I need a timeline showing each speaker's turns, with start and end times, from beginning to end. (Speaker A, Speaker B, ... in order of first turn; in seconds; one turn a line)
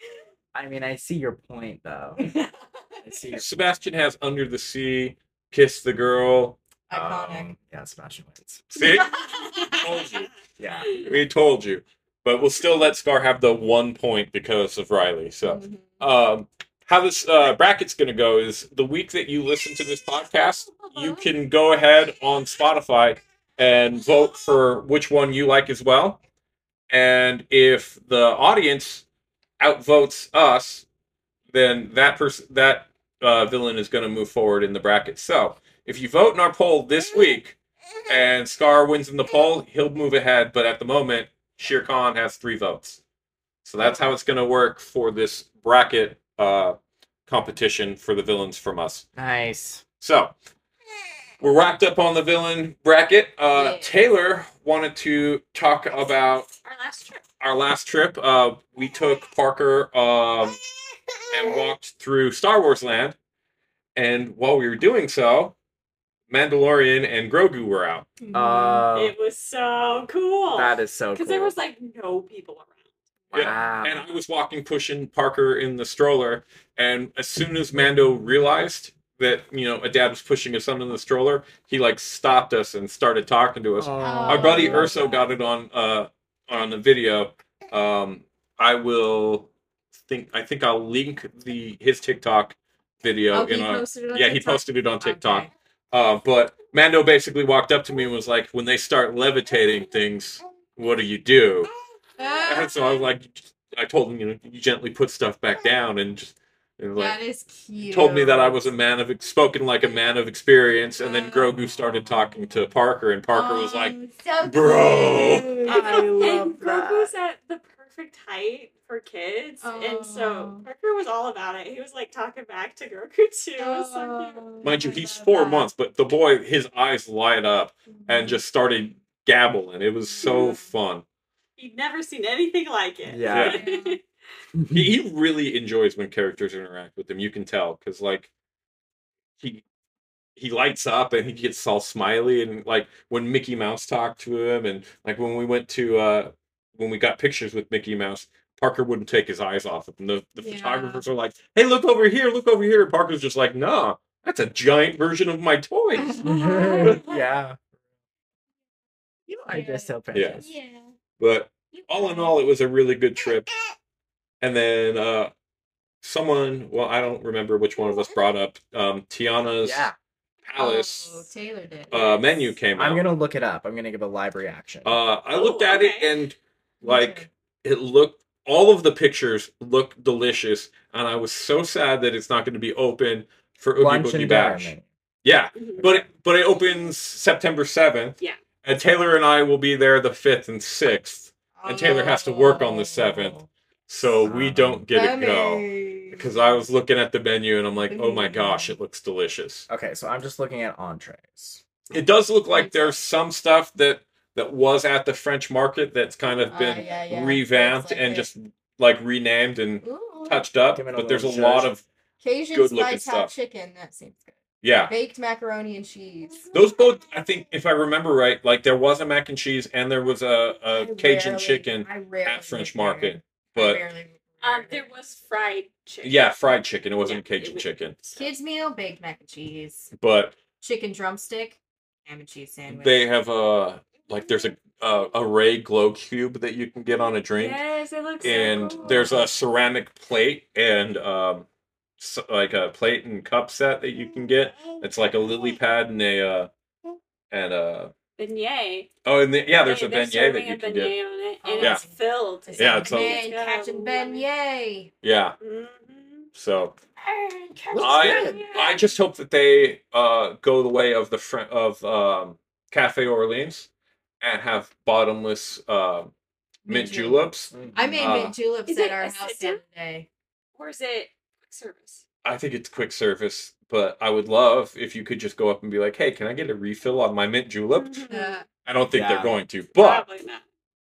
Speaker A: 0.5-2.3
Speaker A: 3.0-3.5
Speaker B: 3.4-6.6
Speaker C: 6.9-7.5
Speaker A: 6.9-8.8
Speaker B: 8.7-10.3
Speaker C: 8.8-9.8
Speaker A: 10.6-10.9
Speaker B: 10.9-26.2
Speaker C: 15.4-16.0
Speaker B: 26.9-29.0
Speaker B: 29.6-30.9
Speaker B: 31.5-37.6
Speaker B: 38.1-43.0
Speaker B: 43.6-46.8
Speaker B: 47.3-49.0
Speaker A: 49.2-49.8
Speaker B: 50.0-50.3
Speaker B: 51.4-56.5
Speaker C: 53.5-53.9
Speaker D: 56.6-57.2
Speaker B: 57.4-60.6
Speaker B: 61.3-63.2
Speaker B: 64.0-65.5
Speaker B: 66.3-68.2
Speaker C: 68.2-68.9
Speaker A: 68.3-69.2
Speaker D: 68.9-72.8
Speaker A: 70.5-71.5
Speaker A: 73.3-74.1
Speaker B: 73.3-89.5
Speaker A: 83.8-85.2
Speaker C: 84.0-85.3
Speaker B: 90.0-101.7
Speaker C: 93.3-95.5
Speaker C: 102.2-103.1
Speaker B: 102.4-107.2
Speaker C: 107.0-108.7
Speaker B: 107.9-115.6
Speaker C: 111.0-111.5
Speaker C: 113.3-117.1
Speaker D: 115.7-124.5
Speaker A: 115.8-116.7
Speaker C: 119.6-120.7
Speaker C: 123.6-125.7
Speaker B: 124.6-131.0
Speaker C: 127.9-128.4
Speaker C: 130.2-130.7
Speaker D: 131.6-134.0
Speaker A: 133.1-133.6
Speaker B: 133.3-133.6
Speaker C: 133.5-134.0
Speaker A: 134.6-134.8
Speaker B: 134.7-138.3
Speaker B: 140.4-157.0
Speaker C: 150.4-151.0
Speaker C: 156.0-157.2
Speaker A: 156.2-157.6
Speaker C: 159.3-160.9
Speaker A: 159.4-160.5
Speaker B: 160.1-160.4
Speaker B: 161.2-163.5
Speaker C: 161.7-162.3
Speaker B: 164.4-165.3
Speaker B: 166.0-169.9
Speaker A: 169.6-169.9
Speaker B: 170.5-171.3
Speaker C: 170.6-172.5
Speaker B: 171.9-173.1
Speaker A: 172.8-175.0
Speaker B: 174.8-184.7
Speaker D: 175.3-176.2
Speaker C: 176.8-177.3
Speaker A: 183.8-184.9
Speaker B: 185.2-193.4
Speaker D: 185.6-185.9
Speaker C: 191.6-193.5
Speaker B: 193.9-199.7
Speaker A: 194.2-194.9
Speaker C: 194.9-196.3
Speaker C: 197.9-198.7
Speaker A: 199.7-201.6
Speaker B: 201.9-211.8
Speaker C: 202.5-203.0
Speaker C: 206.5-208.3
Speaker C: 209.8-210.4
Speaker A: 210.7-211.7
Speaker C: 212.2-216.5
Speaker B: 212.5-213.3
Speaker B: 214.6-214.9
Speaker B: 216.5-223.8
Speaker C: 220.7-224.9
Speaker D: 224.4-226.4
Speaker B: 226.0-227.9
Speaker D: 227.0-228.3
Speaker C: 228.2-229.9
Speaker B: 230.0-230.3
Speaker C: 230.6-233.0
Speaker B: 232.7-237.6
Speaker D: 237.3-239.3
Speaker B: 238.2-241.5
Speaker C: 238.4-239.3
Speaker B: 242.0-246.5
Speaker B: 247.3-247.9
Speaker D: 248.2-248.9
Speaker B: 249.0-250.9
Speaker D: 249.6-254.2
Speaker C: 251.4-252.0
Speaker B: 251.6-251.8
Speaker C: 252.5-254.9
Speaker B: 252.6-253.2
Speaker B: 255.0-255.4
Speaker D: 255.4-256.3
Speaker B: 256.3-256.7
Speaker A: 257.2-258.4
Speaker C: 257.7-258.6
Speaker D: 257.8-258.9
Speaker B: 257.8-263.7
Speaker B: 264.2-266.1
Speaker B: 266.7-268.4
Speaker C: 266.7-270.1
Speaker A: 267.5-268.2
Speaker D: 268.7-269.6
Speaker D: 270.6-272.0
Speaker B: 272.2-278.1
Speaker D: 277.7-278.4
Speaker C: 278.1-278.4
Speaker B: 278.6-280.0
Speaker A: 278.9-279.3
Speaker D: 279.8-280.4